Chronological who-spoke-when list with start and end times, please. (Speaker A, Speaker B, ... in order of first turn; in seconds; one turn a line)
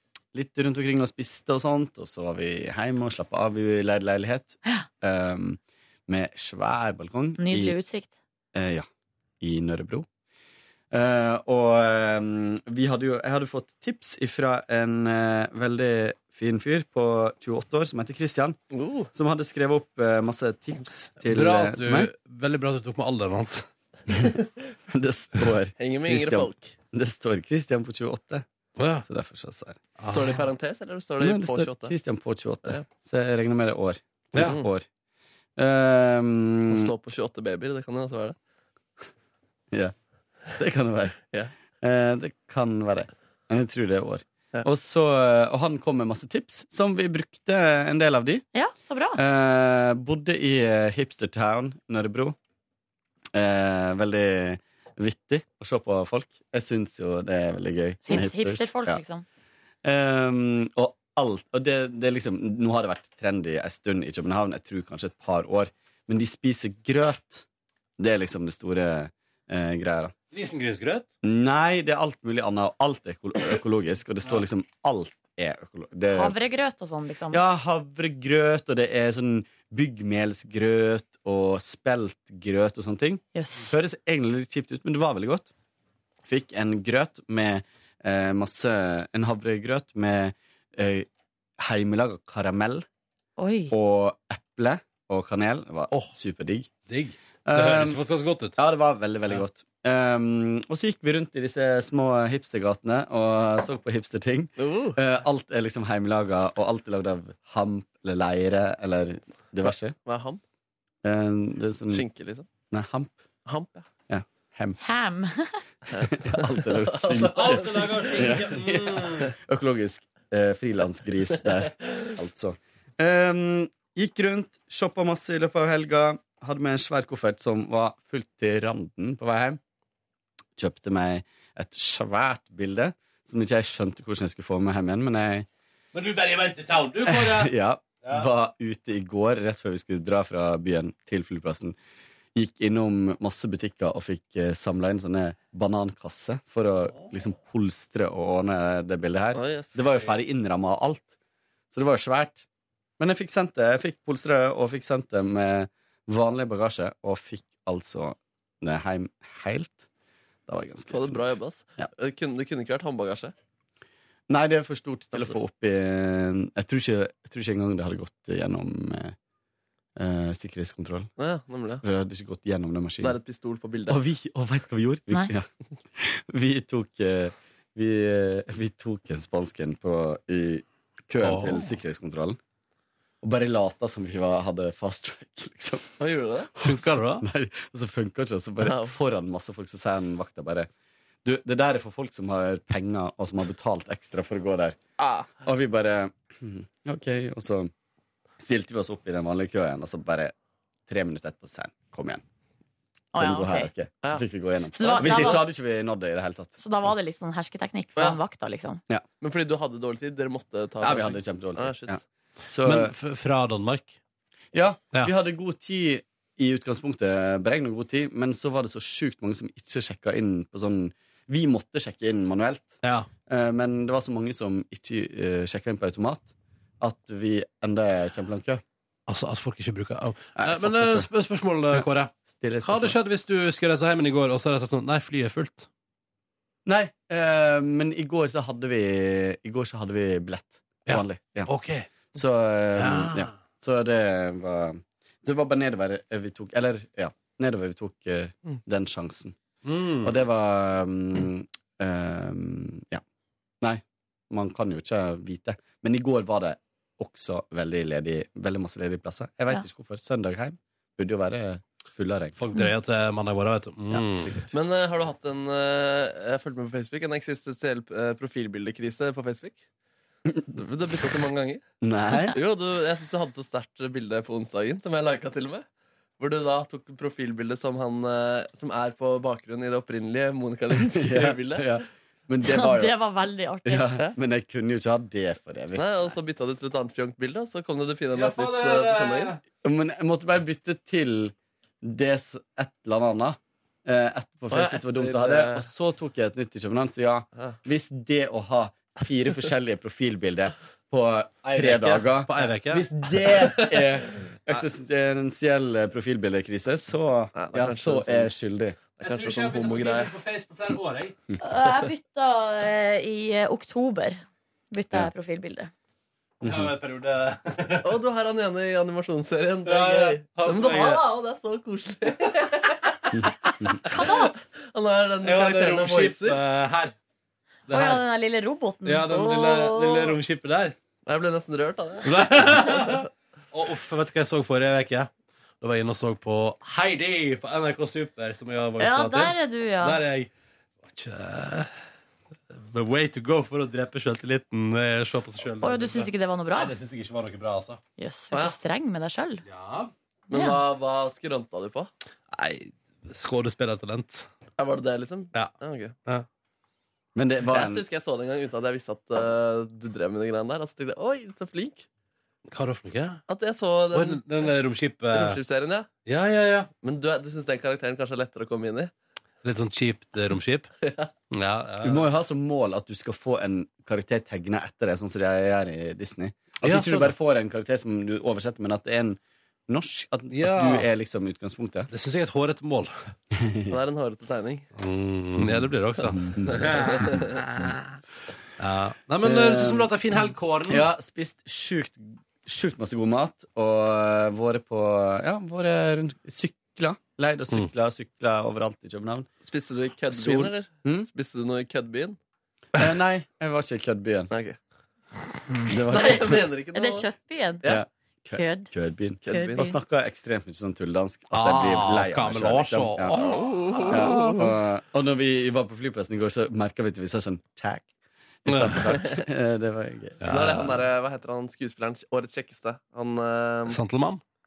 Speaker A: 0.3-7.7
Speaker B: 7.4-8.1
Speaker A: 8.5-8.8
Speaker A: 9.4-10.1
Speaker A: 10.9-18.6
Speaker C: 18.7-19.1
Speaker A: 19.1-22.1
Speaker D: 21.2-23.7
Speaker A: 24.9-28.4
Speaker C: 25.8-26.7
Speaker D: 28.8-29.0
Speaker A: 29.0-29.8
Speaker D: 30.0-30.4
Speaker C: 30.1-31.9
Speaker A: 31.2-34.9
Speaker C: 34.4-34.7
Speaker A: 35.6-36.9
Speaker C: 36.7-38.4
Speaker A: 40.5-41.2
Speaker A: 41.8-48.4
Speaker B: 48.5-49.2
Speaker A: 49.1-52.4
Speaker A: 53.3-59.0
Speaker B: 58.0-59.2
Speaker A: 59.8-67.4
Speaker A: 68.0-70.1
Speaker D: 70.3-71.1
Speaker A: 71.2-76.3
Speaker B: 76.1-77.4
Speaker A: 77.3-85.5
Speaker B: 83.3-83.7
Speaker A: 86.3-91.1
Speaker A: 91.6-92.8
Speaker B: 93.4-93.7
Speaker A: 93.7-96.7
Speaker D: 96.9-98.5
Speaker A: 97.5-98.0
Speaker A: 98.5-110.0
Speaker C: 104.6-105.0
Speaker C: 109.6-110.4
Speaker A: 111.0-112.0
Speaker C: 111.9-112.5
Speaker A: 112.7-113.2
Speaker C: 113.5-113.8
Speaker A: 114.1-114.8
Speaker B: 114.8-115.6
Speaker C: 115.9-118.4
Speaker A: 116.0-129.6
Speaker D: 117.3-119.3
Speaker A: 130.6-135.5
Speaker D: 135.9-137.5
Speaker A: 137.0-141.8
Speaker A: 142.3-151.1
Speaker C: 149.3-150.2
Speaker A: 151.7-152.4
Speaker A: 153.0-159.8
Speaker A: 160.5-161.9
Speaker C: 160.9-163.3
Speaker A: 164.3-169.1
Speaker A: 169.9-171.1
Speaker C: 171.2-171.8
Speaker A: 171.8-173.2
Speaker C: 173.0-174.0
Speaker A: 173.9-182.4
Speaker D: 181.2-181.6
Speaker A: 183.2-185.9
Speaker C: 186.0-186.5
Speaker A: 186.5-190.7
Speaker D: 186.6-187.2
Speaker C: 188.6-188.9
Speaker A: 191.2-194.8
Speaker C: 195.0-195.3
Speaker A: 195.4-197.7
Speaker A: 198.4-200.3
Speaker A: 200.9-202.2
Speaker B: 203.1-203.7
Speaker A: 203.2-206.9
Speaker B: 204.7-205.4
Speaker C: 204.8-205.4
Speaker B: 206.6-208.8
Speaker C: 209.2-212.0
Speaker A: 210.8-212.9
Speaker D: 212.6-213.9
Speaker A: 214.5-228.6
Speaker D: 222.8-223.1
Speaker D: 229.1-235.7
Speaker A: 230.3-231.1
Speaker A: 231.7-232.9
Speaker A: 236.7-241.5
Speaker D: 240.9-241.9
Speaker A: 242.1-249.3
Speaker D: 242.8-243.3
Speaker D: 249.6-250.1
Speaker A: 250.0-253.0
Speaker A: 253.6-262.4
Speaker D: 262.4-264.4
Speaker A: 263.9-264.5
Speaker C: 264.5-269.6
Speaker C: 270.5-271.6
Speaker A: 271.8-272.4
Speaker C: 272.3-275.6
Speaker C: 276.2-281.8
Speaker A: 280.8-282.9
Speaker B: 282.4-284.0
Speaker A: 283.6-286.1
Speaker C: 285.7-289.3
Speaker D: 288.1-289.4
Speaker A: 289.6-308.8
Speaker C: 294.5-295.7
Speaker D: 301.4-302.9
Speaker C: 303.2-304.6
Speaker C: 307.3-308.3
Speaker C: 308.9-310.1
Speaker D: 309.0-311.1
Speaker B: 311.4-315.7
Speaker A: 316.4-316.7
Speaker D: 316.4-317.9
Speaker C: 317.8-323.2
Speaker D: 319.6-321.0
Speaker B: 323.8-324.4
Speaker C: 324.6-326.4
Speaker D: 325.2-326.9
Speaker D: 327.7-328.0
Speaker B: 327.7-329.1
Speaker D: 328.8-330.8
Speaker C: 329.1-330.1
Speaker C: 331.1-333.0
Speaker D: 332.0-335.1
Speaker D: 335.6-340.3
Speaker B: 338.8-340.0
Speaker D: 340.8-341.8
Speaker D: 342.5-347.8
Speaker B: 345.6-346.7
Speaker B: 348.0-349.4
Speaker D: 349.4-349.9
Speaker C: 350.3-351.9
Speaker B: 350.3-350.6
Speaker D: 352.3-354.3
Speaker C: 354.6-355.9
Speaker A: 357.1-357.8
Speaker C: 357.5-361.9
Speaker D: 362.5-363.2
Speaker C: 363.3-364.5
Speaker D: 363.9-365.4
Speaker C: 365.1-365.9
Speaker D: 366.1-366.7
Speaker C: 366.8-368.9
Speaker D: 369.4-370.7
Speaker C: 370.8-371.1
Speaker D: 371.3-372.1
Speaker A: 371.8-381.9
Speaker D: 376.6-377.1
Speaker D: 380.3-380.9
Speaker D: 381.9-382.9
Speaker A: 383.3-383.8
Speaker C: 383.7-384.7
Speaker D: 384.8-388.0
Speaker A: 385.4-386.8
Speaker C: 386.5-387.4
Speaker D: 388.6-390.9
Speaker A: 389.2-389.9
Speaker A: 390.7-399.3
Speaker C: 399.4-402.2
Speaker A: 400.1-401.1
Speaker A: 402.7-404.3
Speaker C: 404.3-404.6
Speaker A: 405.7-406.4
Speaker C: 405.9-407.1
Speaker B: 406.7-407.6
Speaker A: 407.6-413.2
Speaker B: 408.3-408.7
Speaker C: 409.2-409.7
Speaker B: 409.3-409.8
Speaker D: 411.3-414.4
Speaker C: 413.2-414.5
Speaker A: 413.9-417.9
Speaker A: 418.4-420.2
Speaker D: 418.5-418.9
Speaker D: 420.2-420.9
Speaker C: 420.3-423.8
Speaker D: 423.7-424.2